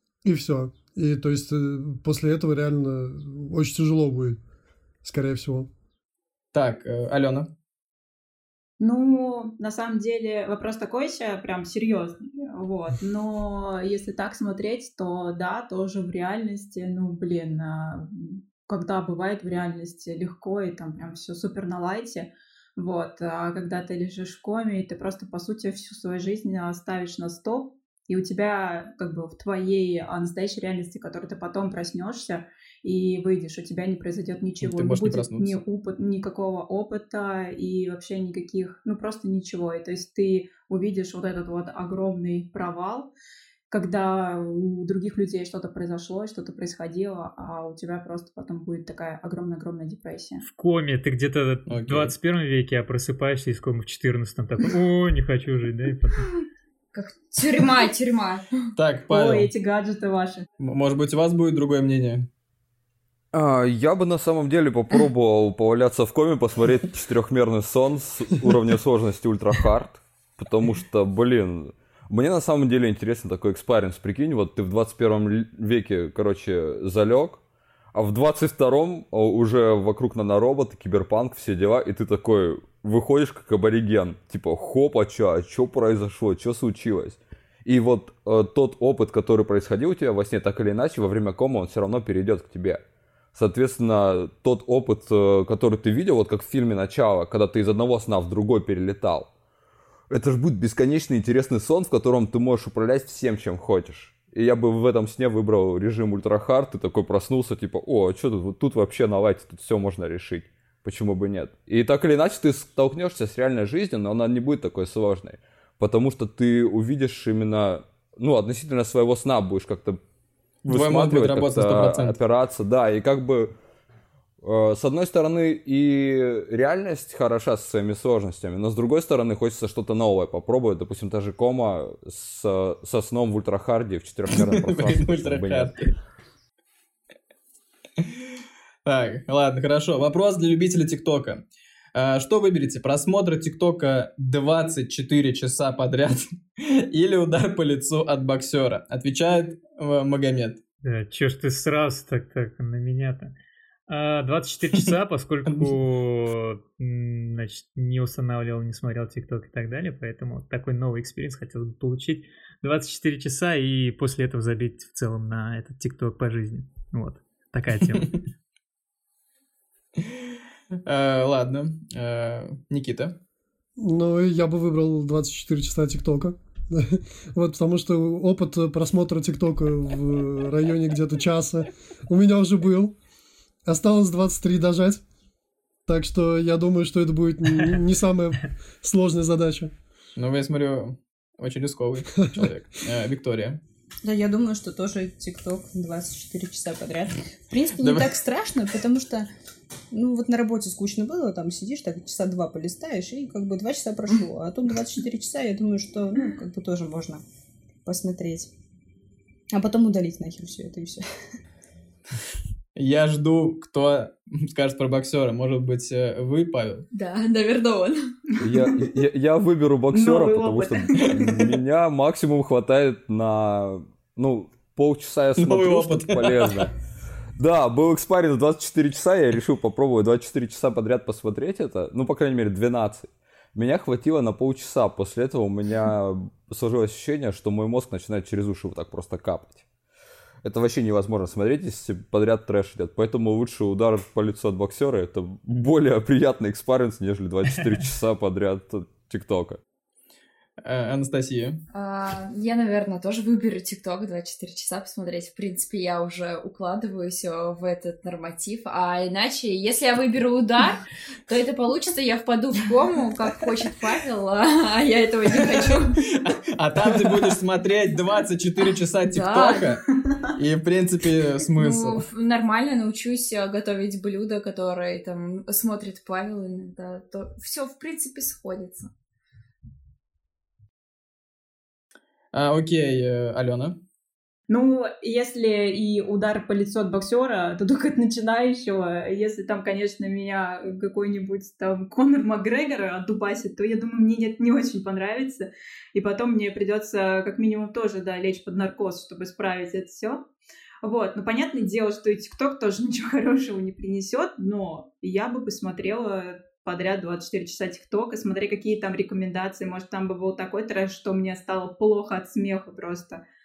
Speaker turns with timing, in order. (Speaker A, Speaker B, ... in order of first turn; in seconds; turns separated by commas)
Speaker A: 0.2-4.4, Speaker A: 5.0-5.7, Speaker B: 6.5-7.5, Speaker C: 8.8-43.1, Speaker B: 34.6-35.6, Speaker C: 43.7-50.4, Speaker D: 50.4-56.3, Speaker B: 51.7-52.1, Speaker E: 56.9-58.7, Speaker B: 58.8-59.5, Speaker C: 59.1-60.5, Speaker B: 60.6-62.3, Speaker F: 63.3-77.4, Speaker F: 77.9-92.8, Speaker F: 93.3-99.3, Speaker F: 100.1-120.0, Speaker B: 120.6-122.2, Speaker F: 120.7-123.5, Speaker F: 124.4-135.7, Speaker B: 134.3-135.9, Speaker B: 138.0-138.2, Speaker B: 138.8-141.4, Speaker B: 141.9-150.6, Speaker D: 150.8-153.3, Speaker D: 153.9-168.2, Speaker B: 155.4-155.7, Speaker B: 170.0-170.2, Speaker B: 170.8-173.1, Speaker A: 173.8-182.9, Speaker A: 183.7-185.0, Speaker A: 185.9-189.7, Speaker B: 190.2-193.6, Speaker G: 194.0-199.3, Speaker B: 197.8-198.2, Speaker G: 199.9-207.2, Speaker G: 207.8-208.5, Speaker G: 209.5-211.1, Speaker B: 212.8-216.9, Speaker E: 216.9-218.1, Speaker F: 218.4-226.7, Speaker C: 219.9-221.1, Speaker B: 225.4-226.7, Speaker F: 227.4-239.6, Speaker F: 240.4-249.6, Speaker B: 250.6-251.6, Speaker E: 251.7-266.0, Speaker B: 266.1-269.8, Speaker E: 269.1-269.7, Speaker B: 270.4-272.0, Speaker E: 271.5-278.9, Speaker B: 282.3-283.8, Speaker C: 284.5-300.2, Speaker C: 300.8-313.2